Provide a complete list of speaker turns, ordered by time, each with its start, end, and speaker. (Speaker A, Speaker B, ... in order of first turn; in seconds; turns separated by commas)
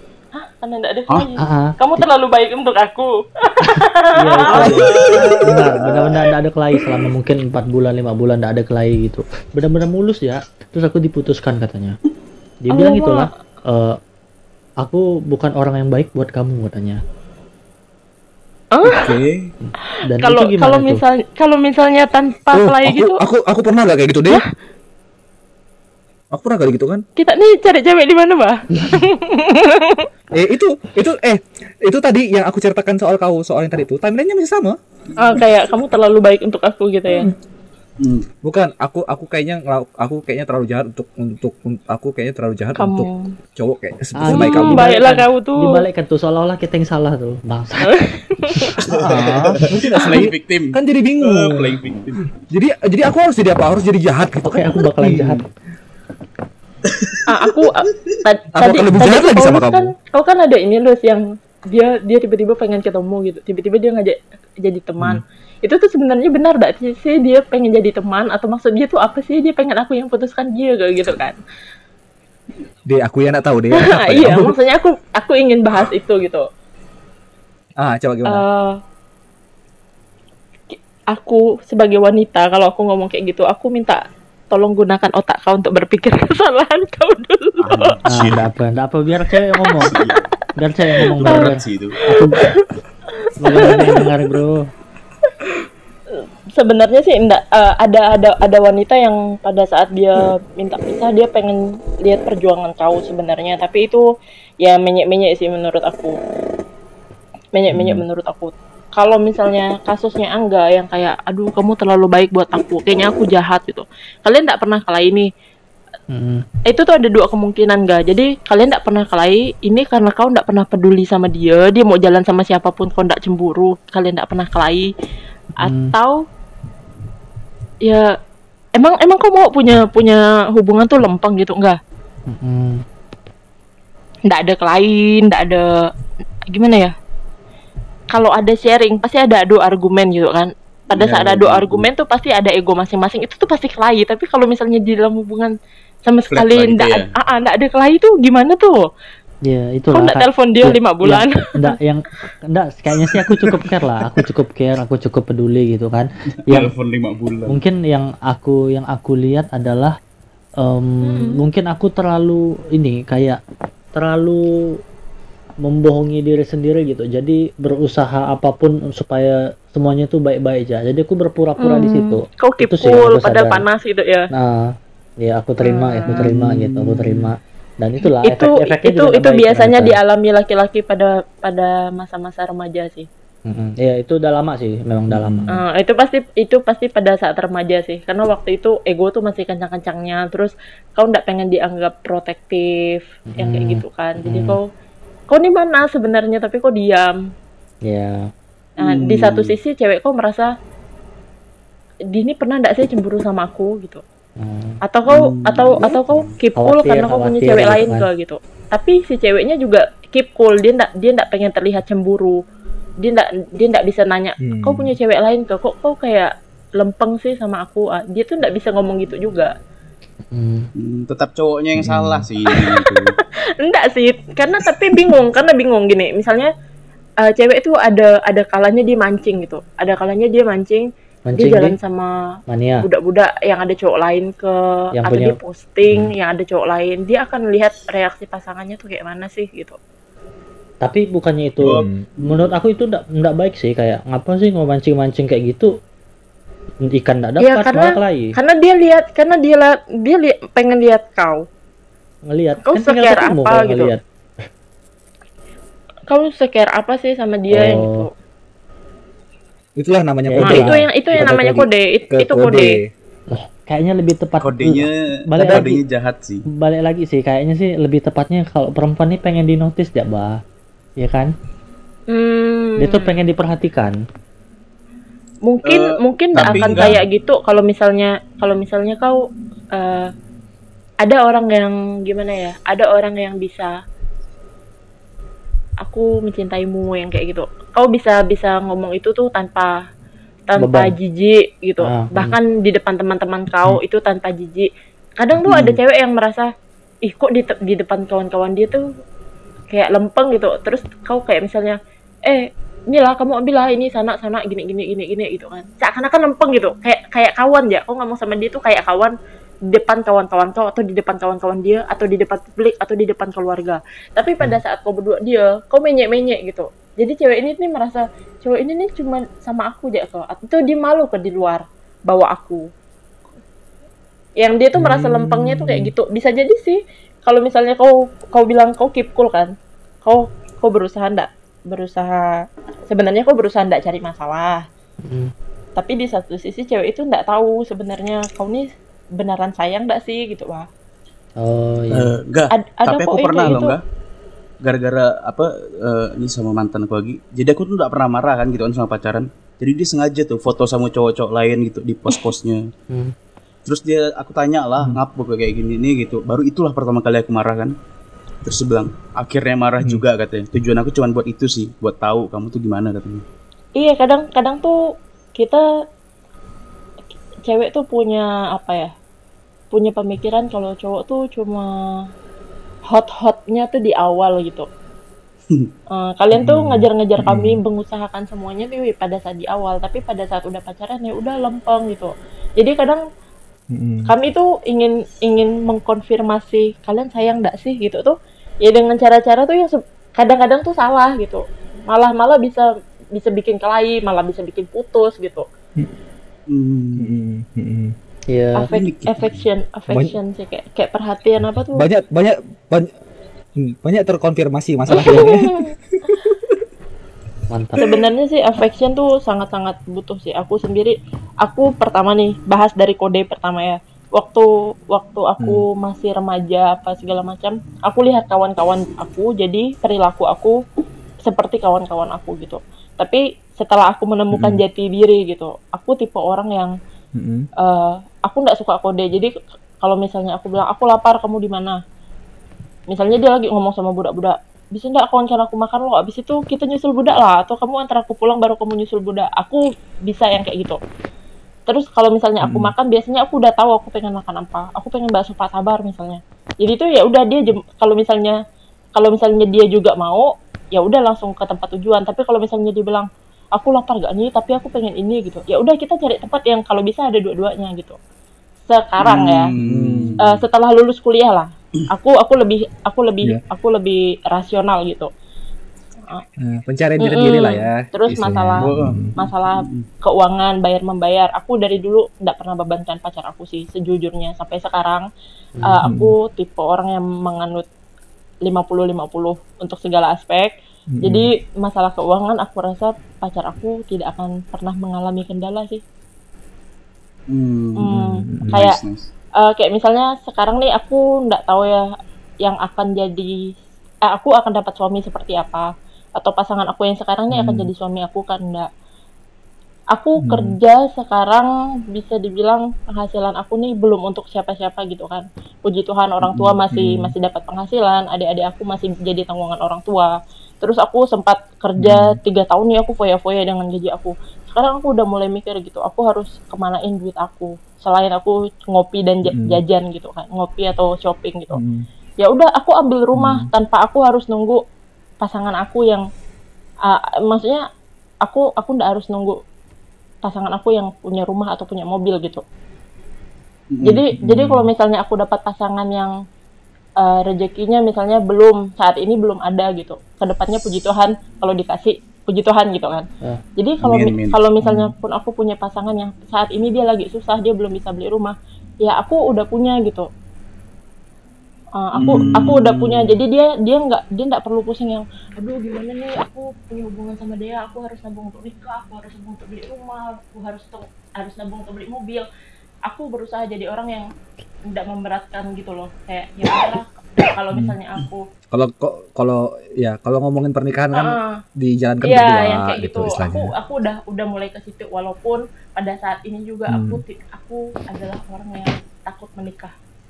Speaker A: 0.4-5.4, Speaker B: 1.4-2.0, Speaker B: 4.2-11.9, Speaker C: 4.5-6.2, Speaker D: 4.5-5.8, Speaker B: 12.6-14.0, Speaker A: 12.7-13.3, Speaker B: 14.8-17.0, Speaker A: 18.7-19.1, Speaker C: 18.9-19.5, Speaker B: 19.6-21.0, Speaker A: 19.9-23.2, Speaker D: 22.5-24.4, Speaker D: 26.3-27.0, Speaker A: 27.2-30.1, Speaker D: 30.3-34.8, Speaker A: 35.2-37.3, Speaker C: 38.0-38.3, Speaker D: 38.4-44.9, Speaker A: 42.8-43.3, Speaker B: 44.2-48.0, Speaker A: 44.3-45.8, Speaker A: 47.9-48.8, Speaker D: 48.9-51.8, Speaker C: 48.9-52.3, Speaker D: 52.5-55.4, Speaker B: 54.5-55.5, Speaker C: 56.9-57.5, Speaker A: 57.3-71.4, Speaker D: 58.5-59.9, Speaker D: 72.8-74.5, Speaker A: 73.8-76.5, Speaker D: 77.8-78.4, Speaker A: 78.3-78.8, Speaker A: 81.1-88.0, Speaker C: 87.6-88.5, Speaker B: 88.1-90.0, Speaker A: 89.6-90.2, Speaker C: 89.8-90.3, Speaker B: 90.6-92.5, Speaker A: 91.1-91.5, Speaker C: 91.2-92.1, Speaker A: 92.1-94.1, Speaker B: 93.4-94.7, Speaker A: 96.5-104.0, Speaker A: 104.6-106.2, Speaker A: 107.5-115.3, Speaker D: 107.7-108.0, Speaker B: 116.1-116.5, Speaker A: 116.7-124.9, Speaker B: 125.6-126.0, Speaker A: 125.6-126.2, Speaker A: 127.8-128.1, Speaker A: 128.8-131.8, Speaker B: 132.3-132.8, Speaker A: 134.3-135.7, Speaker A: 136.5-136.9, Speaker A: 138.1-145.5, Speaker C: 140.9-141.9, Speaker A: 146.1-148.9, Speaker C: 146.3-147.1, Speaker B: 149.4-156.7, Speaker A: 149.9-151.7, Speaker C: 153.0-153.6, Speaker C: 156.5-157.6, Speaker B: 157.5-160.0, Speaker B: 160.6-163.4, Speaker A: 161.0-161.4, Speaker B: 163.9-164.8, Speaker B: 165.6-173.7, Speaker A: 171.6-174.3, Speaker B: 174.3-180.0, Speaker A: 175.6-176.2, Speaker D: 176.2-177.3, Speaker A: 178.2-183.1, Speaker B: 183.5-185.6, Speaker D: 185.1-185.5, Speaker A: 185.5-194.6, Speaker B: 193.3-194.6, Speaker A: 195.3-197.2, Speaker B: 197.9-198.3, Speaker C: 198.8-199.5, Speaker A: 198.8-200.5, Speaker A: 202.1-204.0, Speaker B: 204.4-204.8, Speaker A: 204.8-212.4, Speaker C: 205.1-206.3, Speaker B: 206.6-208.1, Speaker A: 213.0-219.5, Speaker D: 214.4-214.9, Speaker B: 220.3-220.7, Speaker C: 220.8-223.2, Speaker D: 221.8-222.3, Speaker A: 222.5-222.9, Speaker A: 223.6-226.5, Speaker A: 227.2-239.8, Speaker B: 231.3-231.8, Speaker B: 232.5-232.9, Speaker B: 234.9-235.4, Speaker B: 240.8-245.7, Speaker C: 241.6-242.5, Speaker D: 241.6-242.0, Speaker B: 246.8-248.4, Speaker A: 247.4-251.4, Speaker B: 252.3-254.0, Speaker A: 252.7-253.9, Speaker A: 256.1-258.1, Speaker B: 257.5-258.1, Speaker D: 259.8-262.9, Speaker B: 260.3-260.8, Speaker A: 260.4-262.8, Speaker B: 263.3-265.8, Speaker C: 264.4-266.4, Speaker D: 265.4-265.7, Speaker B: 266.5-270.4, Speaker B: 271.0-271.3, Speaker A: 272.1-273.2, Speaker B: 272.8-273.9, Speaker A: 275.5-279.2, Speaker C: 275.7-276.9, Speaker D: 276.4-277.0, Speaker A: 279.7-280.1, Speaker A: 281.0-283.7, Speaker A: 285.8-289.7, Speaker A: 290.5-296.5, Speaker B: 290.6-290.9, Speaker B: 291.8-292.4, Speaker A: 297.1-298.8, Speaker A: 299.7-301.8, Speaker A: 302.3-309.1, Speaker A: 309.7-322.6, Speaker A: 324.4-329.5, Speaker D: 324.8-325.9, Speaker A: 330.0-334.6, Speaker B: 335.1-335.3, Speaker A: 335.8-338.7, Speaker A: 339.2-340.7, Speaker B: 341.4-342.1, Speaker C: 341.9-343.8, Speaker A: 342.6-343.8, Speaker C: 344.6-352.6, Speaker C: 353.7-357.7, Speaker C: 358.4-363.2, Speaker A: 363.8-364.8, Speaker A: 365.4-365.6, Speaker A: 367.5-368.9, Speaker A: 369.7-371.7, Speaker A: 372.9-374.7, Speaker A: 375.9-383.0, Speaker D: 376.4-377.6, Speaker D: 383.7-384.1, Speaker A: 384.1-395.5, Speaker C: 396.5-397.2, Speaker D: 397.0-397.9, Speaker B: 398.3-398.7, Speaker A: 398.6-401.9, Speaker C: 398.7-399.1, Speaker D: 399.9-400.1, Speaker D: 401.8-402.9, Speaker D: 403.6-406.6, Speaker A: 404.9-406.2, Speaker B: 405.0-405.3, Speaker B: 407.5-407.8, Speaker A: 407.8-420.6, Speaker D: 415.4-415.6, Speaker A: 421.3-426.7, Speaker D: 424.3-424.6, Speaker D: 427.1-427.5, Speaker A: 427.6-431.8, Speaker A: 432.9-440.8, Speaker A: 441.7-448.4, Speaker D: 442.4-442.7, Speaker A: 449.0-458.0, Speaker A: 458.7-459.5, Speaker C: 459.0-460.3, Speaker D: 459.6-460.2, Speaker A: 460.2-465.1, Speaker D: 466.4-469.1, Speaker A: 467.0-475.1, Speaker C: 468.6-469.9, Speaker A: 475.6-477.7, Speaker D: 475.8-476.1, Speaker A: 478.4-485.8, Speaker D: 480.9-481.3, Speaker C: 487.3-488.0, Speaker A: 487.8-488.8, Speaker D: 487.9-488.6, Speaker C: 488.5-489.1, Speaker A: 489.4-491.9, Speaker A: 492.4-493.4, Speaker A: 494.1-498.7, Speaker D: 497.3-497.7, Speaker A: 499.9-521.6, Speaker D: 500.2-500.6, Speaker D: 506.3-507.1, Speaker D: 511.8-512.2, Speaker D: 519.3-519.6, Speaker D: 521.5-521.9, Speaker A: 522.2-524.6, Speaker D: 523.1-523.5, Speaker A: 525.2-526.0, Speaker A: 526.9-527.6, Speaker A: 528.2-529.4, Speaker A: 530.2-532.4, Speaker C: 533.7-534.0, Speaker A: 533.8-536.1, Speaker D: 534.1-534.7, Speaker A: 537.0-543.1, Speaker A: 543.6-550.1, Speaker C: 543.8-544.4, Speaker D: 544.6-544.9, Speaker A: 551.8-562.3, Speaker C: 552.0-553.2, Speaker D: 552.1-552.5, Speaker A: 562.9-564.1, Speaker A: 564.7-568.2, Speaker D: 568.5-573.5, Speaker A: 570.9-571.4, Speaker A: 572.0-579.7, Speaker D: 576.7-577.0